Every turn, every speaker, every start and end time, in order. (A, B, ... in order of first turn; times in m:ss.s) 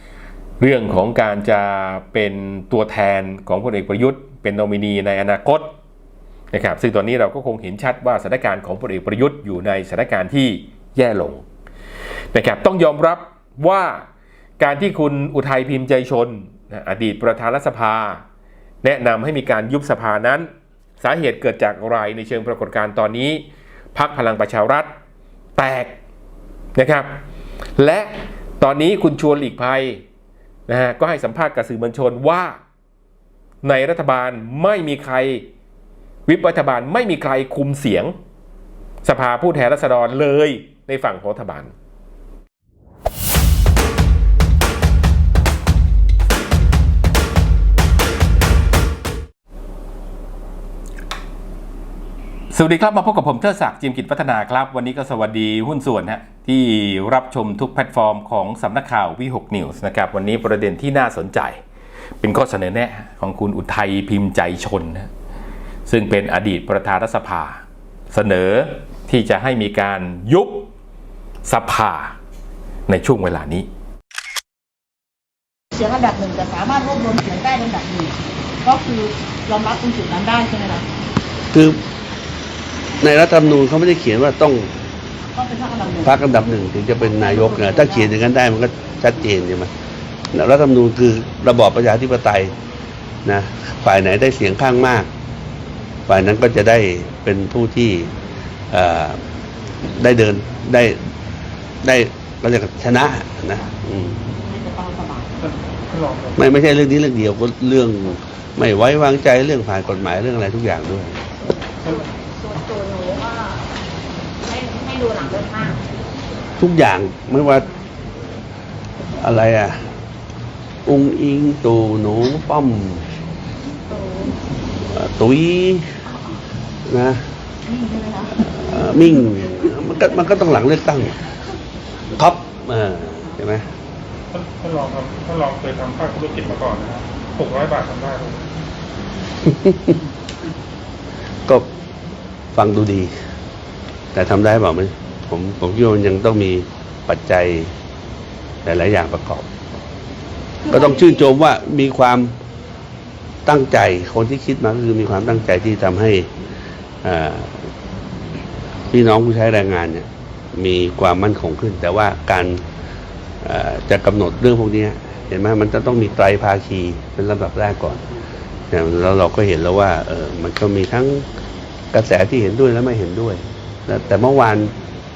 0:00.6-0:05.7 A
0:06.5-0:11.4 A
0:12.3-0:14.0 A
0:14.6-0:18.2 A
0:18.8-0:20.5 A
0:21.0-0:23.4 A
0:23.9-0:24.9 A
0:25.6-0:26.0 A
0:26.8-0:27.2 A
0:27.8-0:30.0 A
0:30.7-0:32.6 A
0:33.6-0:35.4 A
0:36.3-0:38.1 A
0:39.0-0:41.7 A
0:52.5-1:01.6 A
1:02.2-1:05.1 A
1:05.8-1:10.7 A
1:11.4-1:12.1 A
1:12.9-1:13.7 A
1:15.7-1:20.9 B
1:21.5-1:21.8 C
1:23.0-1:24.7 C
1:25.3-1:26.2 B
1:26.0-1:29.7 C
1:27.0-1:28.2 B
1:30.3-1:32.5 C
1:33.2-1:35.1 C
1:36.1-1:38.1 C
1:38.7-1:39.2 C
1:39.8-1:41.0 C
1:41.8-1:44.2 C
1:44.4-1:45.3 B
1:45.4-1:46.4 D
1:46.4-1:51.1 C
1:51.4-1:53.6 B
1:54.4-1:55.8 B
1:56.6-1:57.6 C
1:59.2-1:59.8 C
2:00.8-2:03.0 C
2:04.9-2:05.9 C
2:06.9-2:07.2 C
2:07.7-2:09.0 B
2:08.5-2:11.3 C
2:12.1-2:13.6 C
2:14.3-2:18.5 D
2:19.4-2:20.0 C
2:22.5-2:23.1 C
2:24.1-2:27.7 C
2:28.6-2:29.5 C
2:30.6-2:31.3 B
2:30.7-2:32.4 C
2:33.4-2:36.3 C
2:37.0-2:37.7 C
2:38.9-2:42.6 C
2:43.4-2:48.0 C
2:48.7-2:51.2 C
2:51.9-2:54.7 C